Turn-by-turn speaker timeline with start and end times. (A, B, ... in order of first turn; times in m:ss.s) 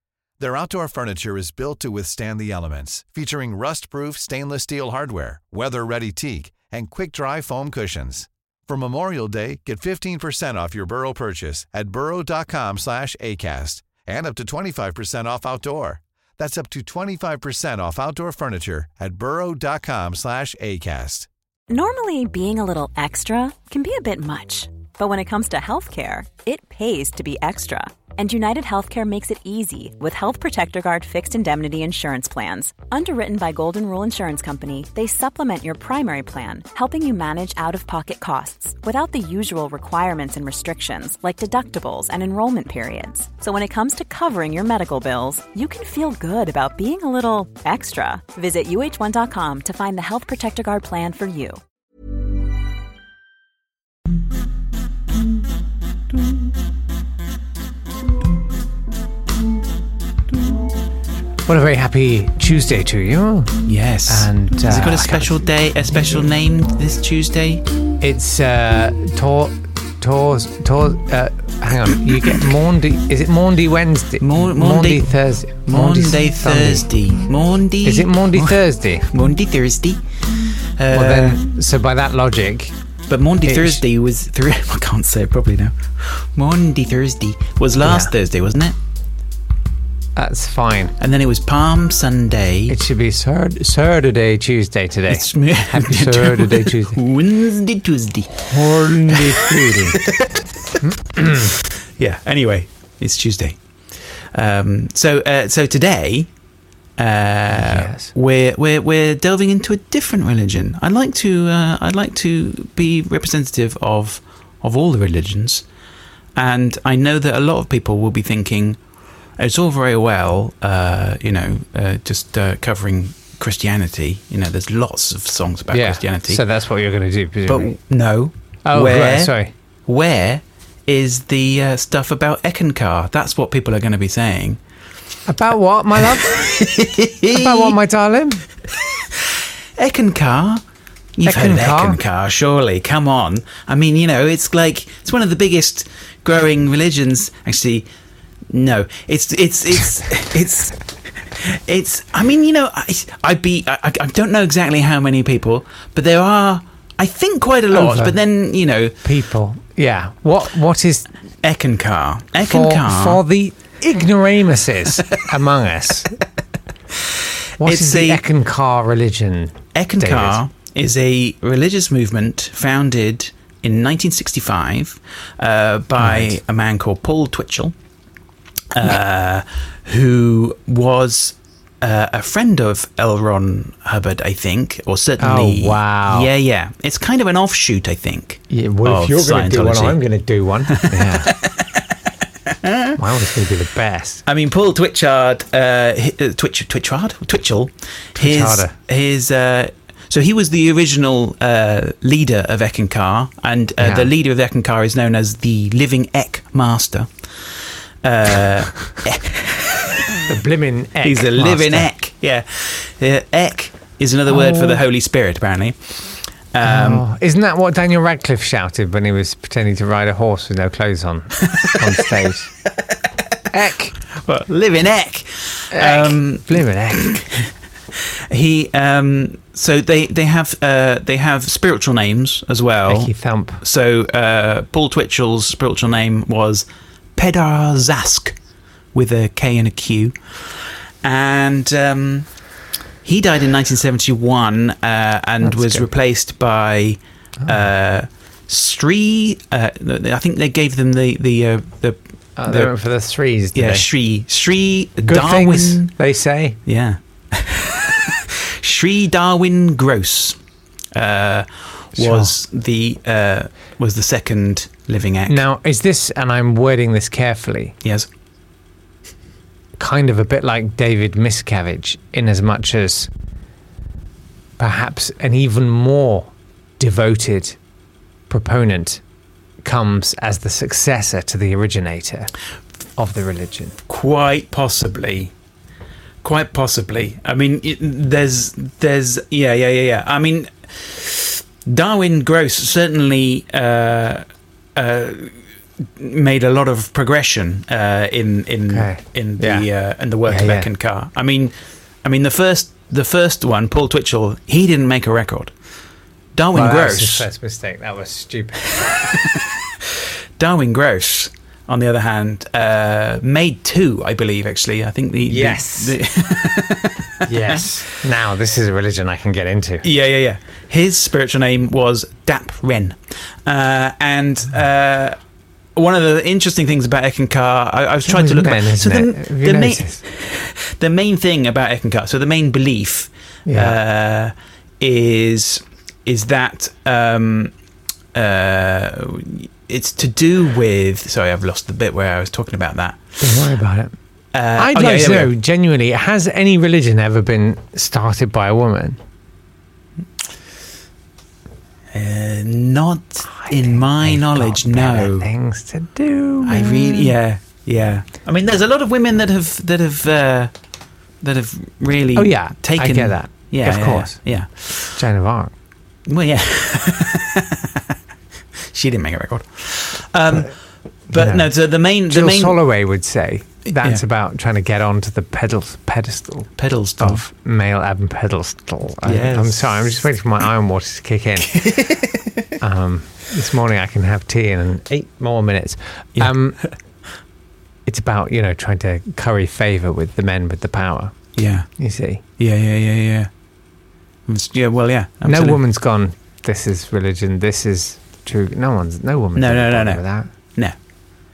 0:00.4-0:21.3 A
0:21.7-0:51.6 B
1:01.4-1:05.4 C
1:03.6-1:07.6 D
1:08.0-1:16.9 C
1:14.2-1:15.1 D
1:15.7-1:21.4 D
1:17.8-1:19.1 C
1:20.9-1:22.7 C
1:23.1-1:28.8 D
1:23.4-1:23.8 C
1:27.8-1:28.1 C
1:30.2-1:30.9 C
1:31.0-1:32.8 D
1:32.7-1:37.0 C
1:35.1-1:38.4 D
1:38.4-1:40.0 C
1:39.1-1:46.3 D
1:40.8-1:41.5 C
1:47.0-1:55.6 D
1:47.5-1:48.1 C
1:56.3-1:58.8 D
1:59.4-2:06.4 D
2:05.7-2:07.8 C
2:07.5-2:14.6 D
2:08.6-2:09.5 C
2:15.3-2:16.5 C
2:16.0-2:17.8 D
2:17.3-2:18.4 C
2:19.0-2:20.6 D
2:21.2-2:27.9 D
2:21.2-2:22.0 C
2:28.5-2:39.0 D
2:37.7-2:38.2 C
2:39.0-2:41.1 C
2:41.4-2:43.2 D
2:42.4-2:46.1 C
2:46.9-2:48.2 D
2:47.6-2:50.4 C
2:49.7-2:57.7 D
2:56.0-2:56.4 C
2:58.7-3:10.0 D
3:05.2-3:06.3 C
3:08.5-3:11.3 C
3:10.7-3:11.9 D
3:12.4-3:13.0 D
3:13.0-3:14.2 C
3:14.2-3:27.5 D
3:18.2-3:18.7 C
3:23.8-3:24.1 C
3:28.0-3:30.0 D
3:30.3-3:31.9 C
3:31.0-3:37.0 D
3:34.3-3:34.8 C
3:36.6-3:42.5 C
3:43.5-3:43.9 C
3:44.1-3:58.4 D
3:45.7-3:47.2 C
3:52.9-3:53.6 C
3:58.9-4:02.3 D
4:03.0-4:12.7 D
4:05.4-4:05.8 C
4:12.4-4:13.9 C
4:13.5-4:15.9 D
4:15.0-4:16.6 C
4:16.6-4:20.4 D
4:20.9-4:25.4 D
4:22.0-4:22.3 C
4:25.3-4:27.8 C
4:29.8-4:33.1 C
4:34.6-4:37.6 C
4:38.3-4:39.0 C
4:39.6-4:42.3 C
4:43.0-4:43.8 C
4:43.9-4:45.3 D
4:46.2-5:05.5 D
4:58.7-4:59.7 C
5:00.2-5:00.7 C
5:06.3-5:07.3 D
5:06.5-5:08.7 C
5:08.8-5:09.1 D
5:10.4-5:17.8 D
5:15.3-5:16.0 C
5:17.2-5:19.8 C
5:19.8-5:25.2 D
5:25.7-5:37.5 D
5:28.0-5:30.0 C
5:33.4-5:33.8 C
5:38.1-5:43.4 D
5:43.2-5:43.9 C
5:44.3-5:45.3 D
5:44.6-5:49.0 C
5:51.9-5:55.3 D
5:53.3-5:57.1 C
5:56.4-6:00.5 D
6:01.2-6:05.0 D
6:02.2-6:04.2 C
6:04.9-6:05.5 C
6:06.0-6:08.0 D
6:08.6-6:10.6 D
6:11.1-6:12.6 D
6:11.1-6:21.7 C
6:13.7-6:14.0 D
6:16.6-6:17.2 D
6:19.0-6:19.7 D
6:21.5-6:22.4 D
6:22.6-6:26.6 C
6:26.1-6:26.7 D
6:27.8-6:32.2 C
6:31.3-6:31.7 D
6:32.4-6:33.3 D
6:34.3-6:35.6 D
6:35.2-6:40.3 C
6:39.4-6:40.7 D